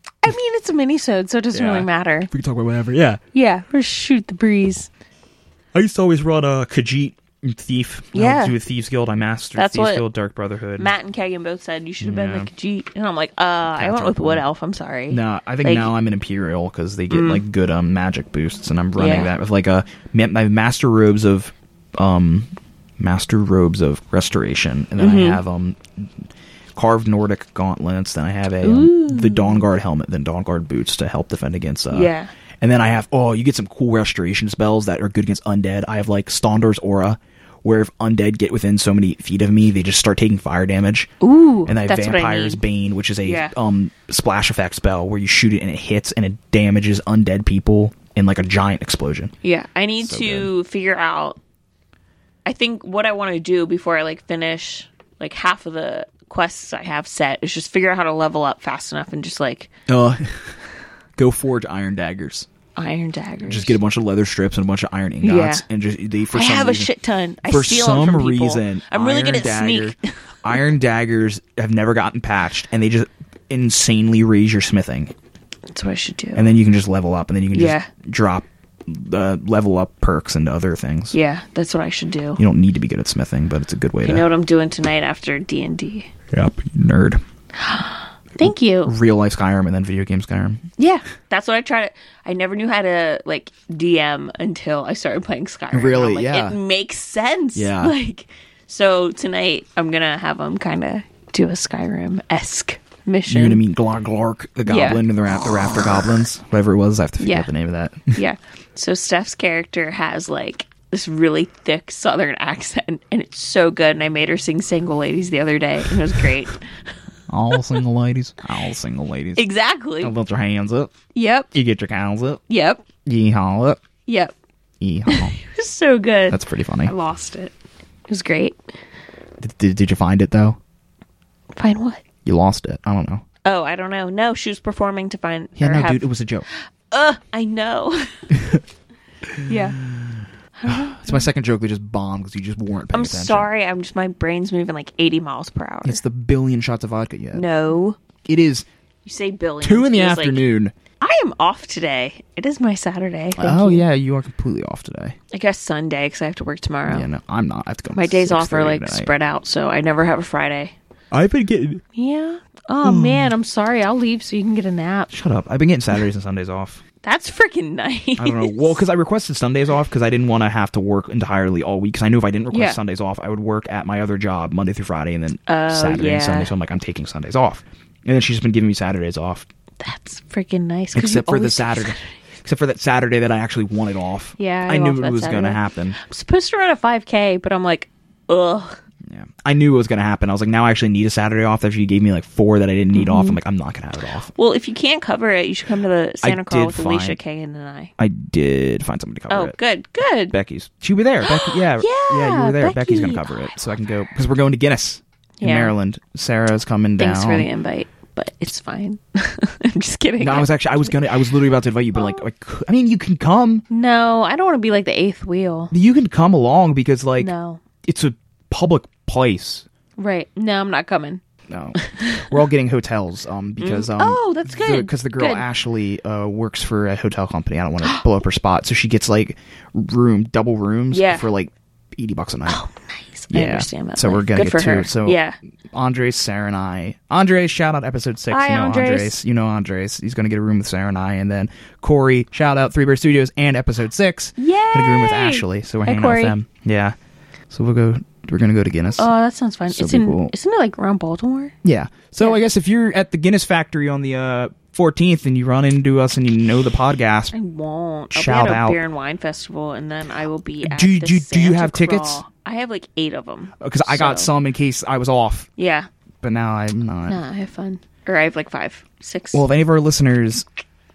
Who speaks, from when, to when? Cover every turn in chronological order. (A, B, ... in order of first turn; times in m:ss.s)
0:00.2-0:02.3 A
0:01.5-0:03.2 B
0:03.3-0:04.9 A
0:05.7-0:10.9 B
0:08.1-0:08.6 A
0:09.6-0:10.1 A
0:10.8-0:15.9 A
0:12.0-0:12.5 B
0:13.7-0:14.4 B
0:15.1-0:26.1 B
0:17.1-0:17.4 A
0:19.0-0:19.3 A
0:25.0-0:25.4 A
0:26.8-0:41.1 B
0:28.6-0:29.6 A
0:31.9-0:32.3 A
0:41.2-0:42.6 A
0:41.7-0:49.3 B
0:43.2-0:43.5 A
0:49.4-0:51.4 A
0:50.0-0:50.5 B
0:52.5-0:59.7 A
0:59.9-1:00.6 B
1:01.2-1:02.5 B
1:02.8-1:03.8 A
1:03.4-1:06.9 B
1:05.2-1:05.6 A
1:06.3-1:10.0 A
1:07.4-1:15.1 B
1:15.7-1:16.5 A
1:16.4-1:21.2 B
1:17.5-1:17.9 A
1:21.1-1:22.4 A
1:22.4-1:24.3 B
1:24.0-1:26.1 A
1:26.3-1:27.2 B
1:27.6-1:28.9 A
1:28.4-1:30.7 B
1:30.8-1:43.6 A
1:35.7-1:36.6 B
1:37.6-1:38.0 B
1:43.3-1:48.2 B
1:44.7-1:45.0 A
1:47.2-1:47.5 A
1:48.1-1:56.6 A
1:57.3-1:59.5 B
1:59.4-2:00.1 A
2:00.0-2:00.9 B
2:01.2-2:01.5 A
2:01.5-2:02.4 B
2:02.5-2:02.8 A
2:03.1-2:03.8 B
2:04.1-2:04.3 A
2:04.8-2:05.4 B
2:05.1-2:07.5 A
2:06.3-2:06.9 B
2:08.1-2:08.6 A
2:09.4-2:10.6 B
2:11.6-2:12.0 A
2:12.2-2:13.2 B
2:13.4-2:18.2 A
2:15.6-2:16.5 B
2:18.4-2:18.6 B
2:19.5-2:19.8 A
2:19.8-2:23.5 B
2:20.6-2:21.3 A
2:22.9-2:26.0 A
2:25.8-2:27.5 B
2:27.3-2:28.0 A
2:28.3-2:28.7 B
2:29.0-2:30.5 A
2:29.6-2:30.7 B
2:31.0-2:33.9 A
2:33.4-2:35.2 B
2:35.3-2:37.1 A
2:36.9-2:39.1 B
2:37.9-2:40.8 A
2:41.1-2:41.8 B
2:42.0-2:45.1 A
2:42.8-2:43.3 B
2:45.1-2:46.8 B
2:47.0-2:48.8 A
2:48.2-2:59.5 B
2:52.5-2:52.8 A
2:55.5-2:56.5 A
2:59.8-3:02.1 A
3:00.9-3:06.0 B
3:04.4-3:08.8 A
3:09.1-3:14.3 B
3:12.9-3:13.4 A
3:14.4-3:17.9 A
3:16.2-3:17.2 B
3:18.0-3:19.6 B
3:19.3-3:20.3 A
3:20.3-3:27.5 B
3:21.2-3:23.7 A
3:25.4-3:25.8 A
3:27.0-3:31.3 A
3:30.2-3:33.6 B
3:31.9-3:32.2 A
3:33.7-3:35.7 A
3:35.7-3:37.3 B
3:37.2-3:37.6 A
3:37.8-3:39.7 B
3:40.0-3:41.2 A
3:41.5-3:52.6 B
3:41.8-3:42.4 A
3:43.6-3:45.5 A
3:50.9-3:51.3 A
3:52.5-3:55.4 A
3:53.3-3:55.2 B
3:55.7-4:07.0 B
3:58.3-3:59.2 A
4:04.4-4:06.4 A
4:07.5-4:09.1 B
4:09.0-4:11.6 A
4:09.7-4:10.3 B
4:11.6-4:17.3 B
4:17.3-4:24.3 A
4:18.1-4:18.8 B
4:20.6-4:22.2 B
4:23.6-4:25.5 B
4:25.6-4:25.9 A
4:26.2-4:27.2 B
4:27.1-4:29.4 A
4:29.3-4:30.5 B